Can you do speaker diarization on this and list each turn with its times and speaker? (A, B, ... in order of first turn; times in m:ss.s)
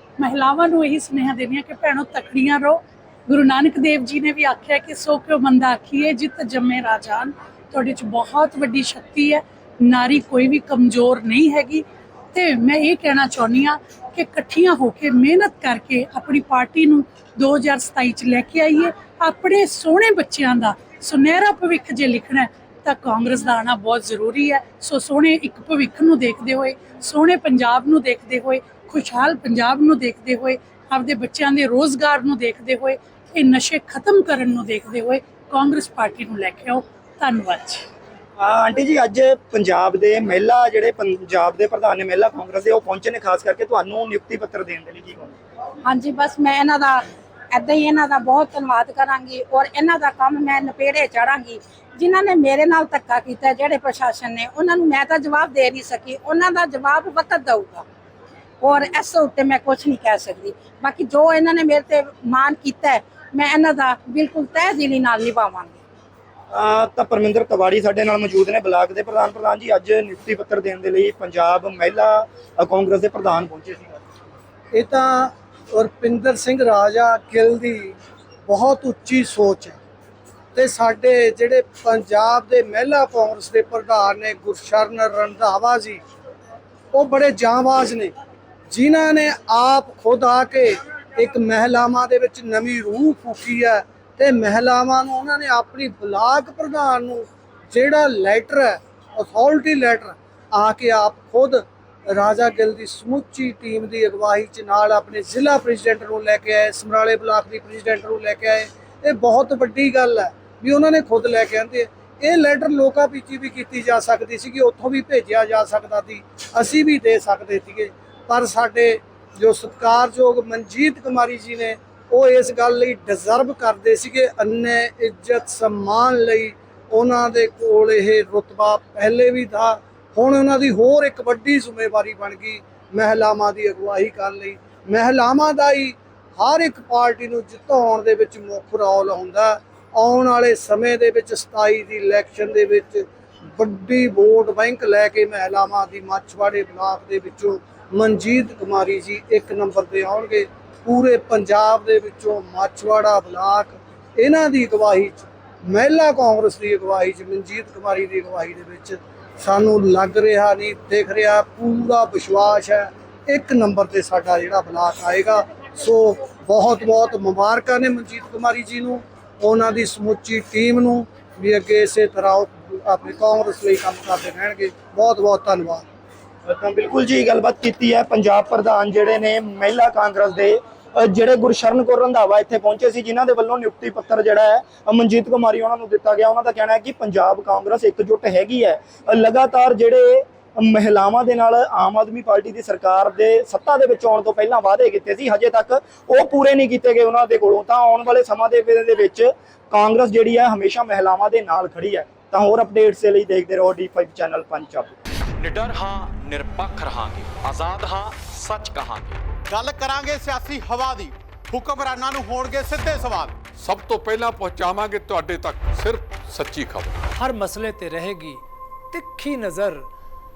0:00.2-0:37.9 A
0:38.4-0:45.3 B
0:45.8-0:57.8 C
0:58.6-1:05.8 C
1:06.5-1:14.0 B
1:14.7-1:17.9 D
1:18.5-1:19.8 D
1:20.5-1:26.0 D
1:26.9-1:28.1 D
1:28.7-2:23.0 D
2:23.6-2:55.8 D
2:56.4-3:24.9 B
3:25.4-3:29.2 E
3:29.5-3:33.5 F
3:33.5-3:37.0 G
3:37.1-3:39.9 H